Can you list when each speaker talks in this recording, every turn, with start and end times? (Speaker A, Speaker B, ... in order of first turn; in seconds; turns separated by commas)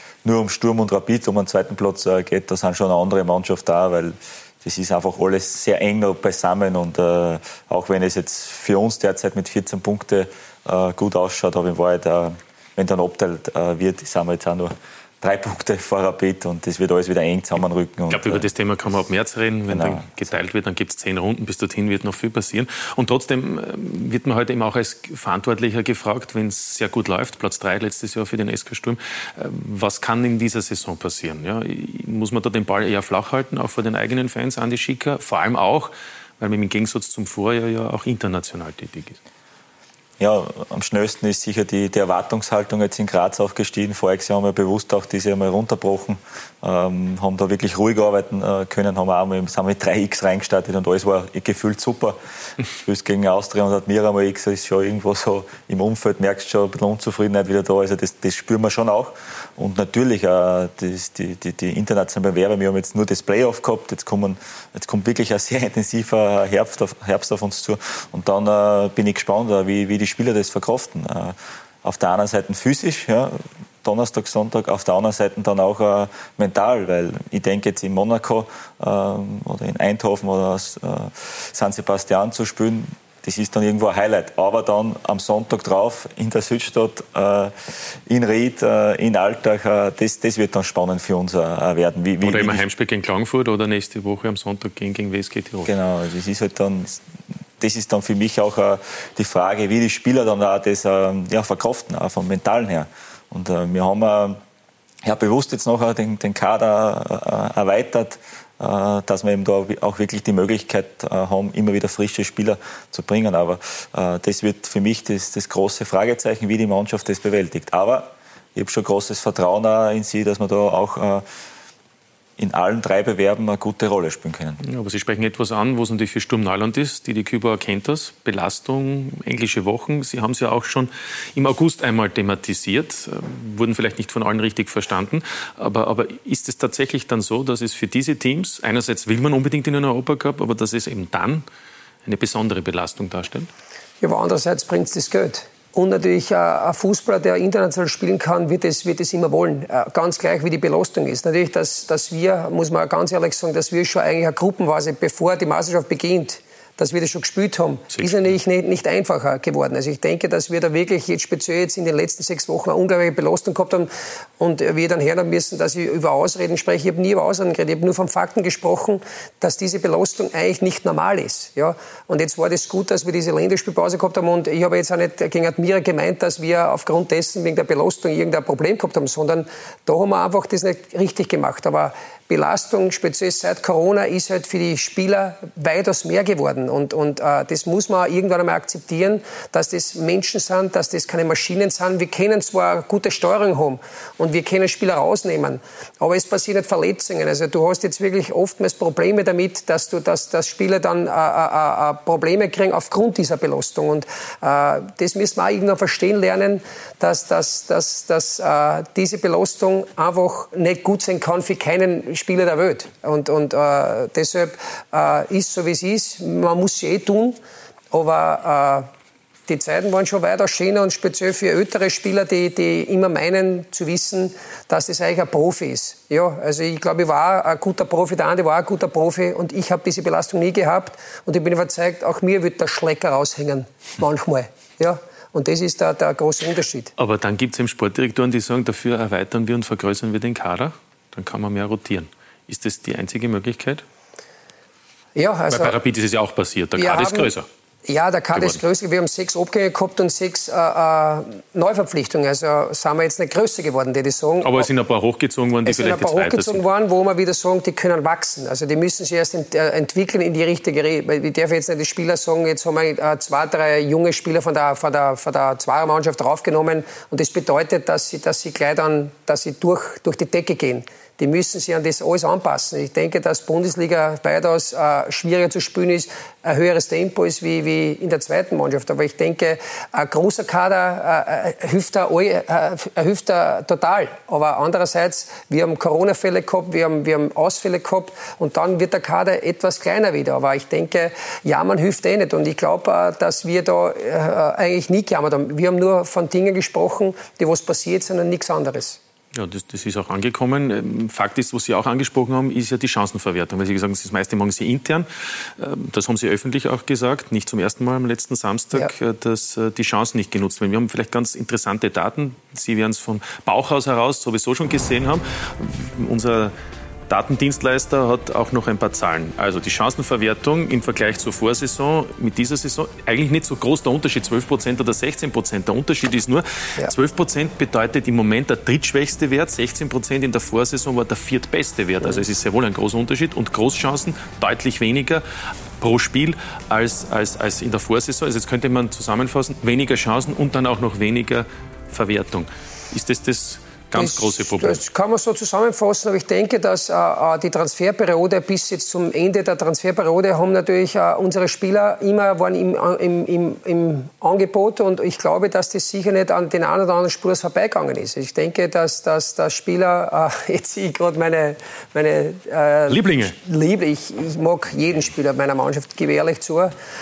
Speaker A: 0.2-18.5, Speaker B: 18.1-39.2, Speaker A: 19.7-20.1, Speaker A: 40.2-52.2, Speaker A: 52.8-92.6, Speaker B: 92.2-95.7, Speaker A: 95.7-97.0, Speaker A: 97.6-104.4, Speaker A: 105.0-121.2, Speaker A: 122.4-124.6, Speaker B: 124.6-141.4, Speaker B: 142.1-143.5, Speaker C: 144.0-217.4, Speaker B: 157.9-158.2, Speaker C: 217.9-218.9, Speaker C: 219.5-236.9, Speaker B: 237.0-243.8, Speaker C: 245.2-245.8, Speaker B: 245.5-247.5, Speaker C: 246.8-247.3, Speaker C: 247.9-254.7, Speaker B: 248.3-248.6, Speaker B: 254.4-256.6, Speaker C: 255.7-299.0, Speaker B: 299.3-316.5, Speaker B: 317.1-335.2, Speaker B: 335.8-344.8, Speaker C: 343.9-366.7, Speaker B: 362.9-363.4